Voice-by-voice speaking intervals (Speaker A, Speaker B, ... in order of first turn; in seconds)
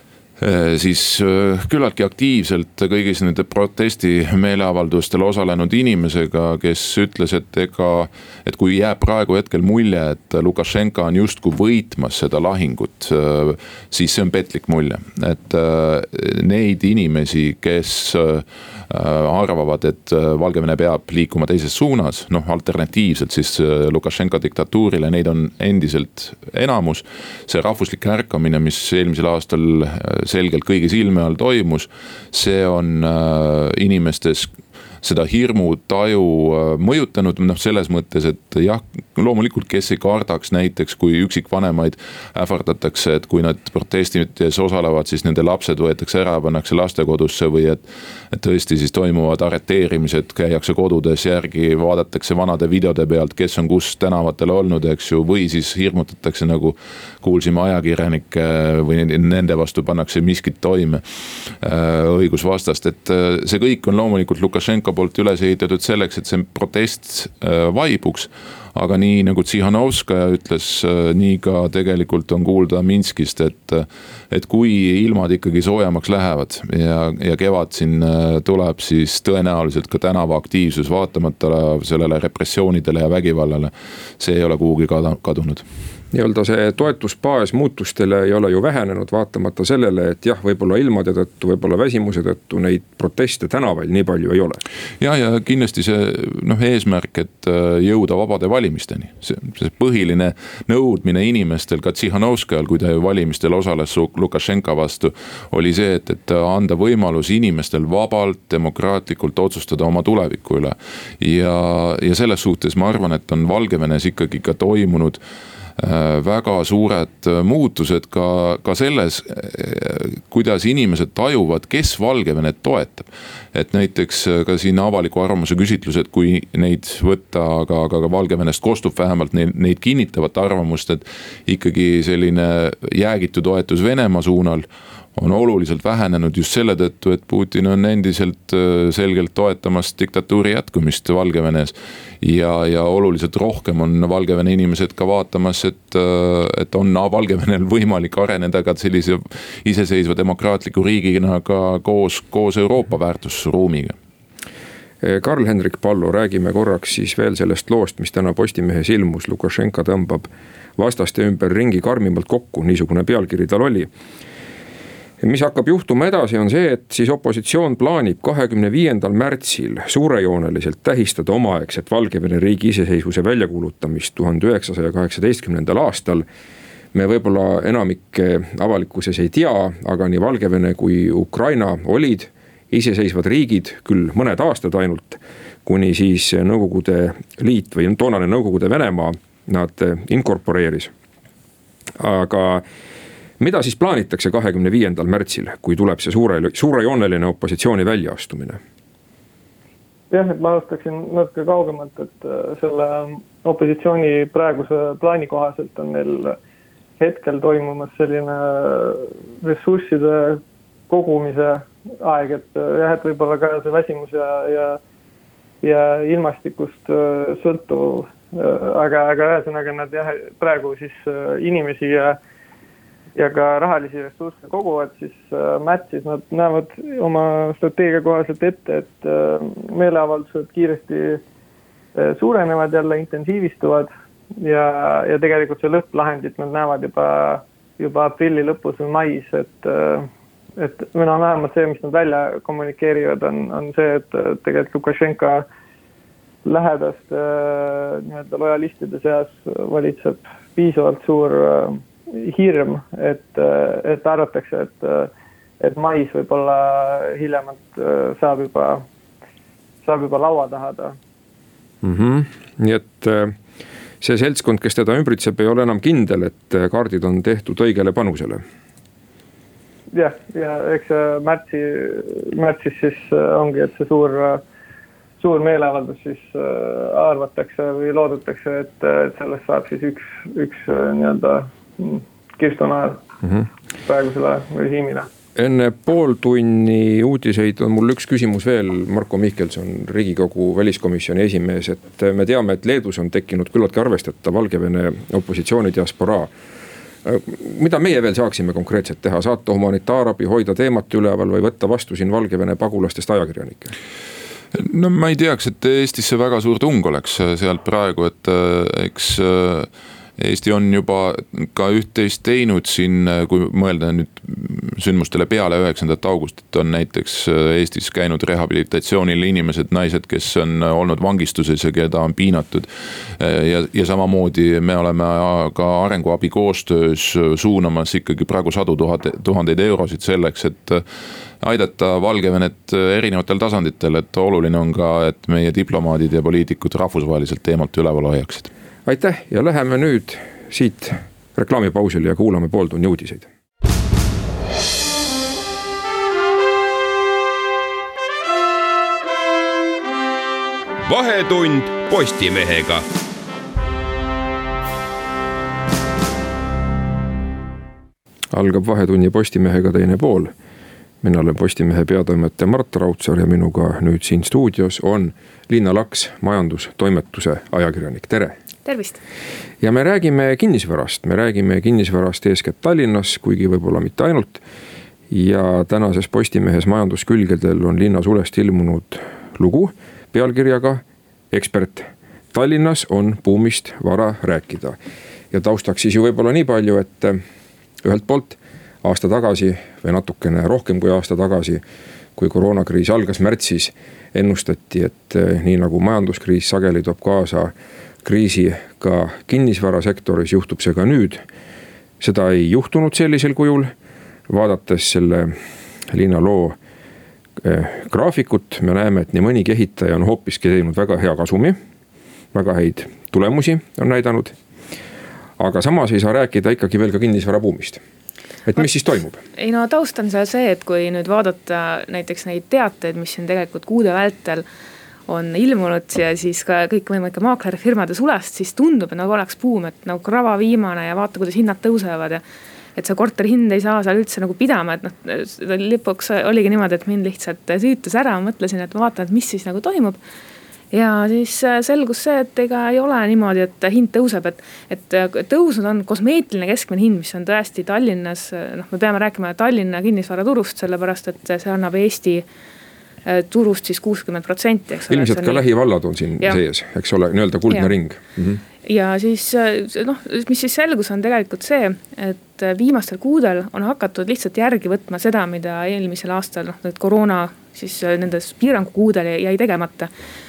Speaker A: 0.4-85.7, 95.0-115.2, 115.8-154.0, 304.5-330.8, 331.4-338.5
Speaker B: 86.1-94.6, 155.0-163.9, 165.2-176.3, 176.9-190.9, 192.0-192.7, 193.4-198.6, 261.8-263.4, 264.0-268.4, 285.4-296.3, 297.0-303.7, 338.9-343.3, 358.3-360.3, 361.0-368.4, 369.6-374.4, 375.1-384.8, 385.3-387.2, 387.8-391.6, 392.2-401.2, 402.0-403.7, 404.3-405.4, 405.9-406.6, 407.4-411.6, 412.3-414.4, 415.4-417.8, 418.5-419.2, 454.9-458.4
Speaker C: 200.1-206.4, 207.0-214.8, 215.6-222.2, 223.2-231.2, 231.9-245.5, 246.4-255.1, 255.6-258.9, 259.8-261.0, 269.9-274.4, 275.2-283.0, 283.9-285.1
Speaker D: 350.9-352.9
Speaker E: 368.6-369.0, 419.4-424.4, 425.1-432.2, 432.8-440.0, 440.7-452.2, 453.1-455.4, 458.6-469.9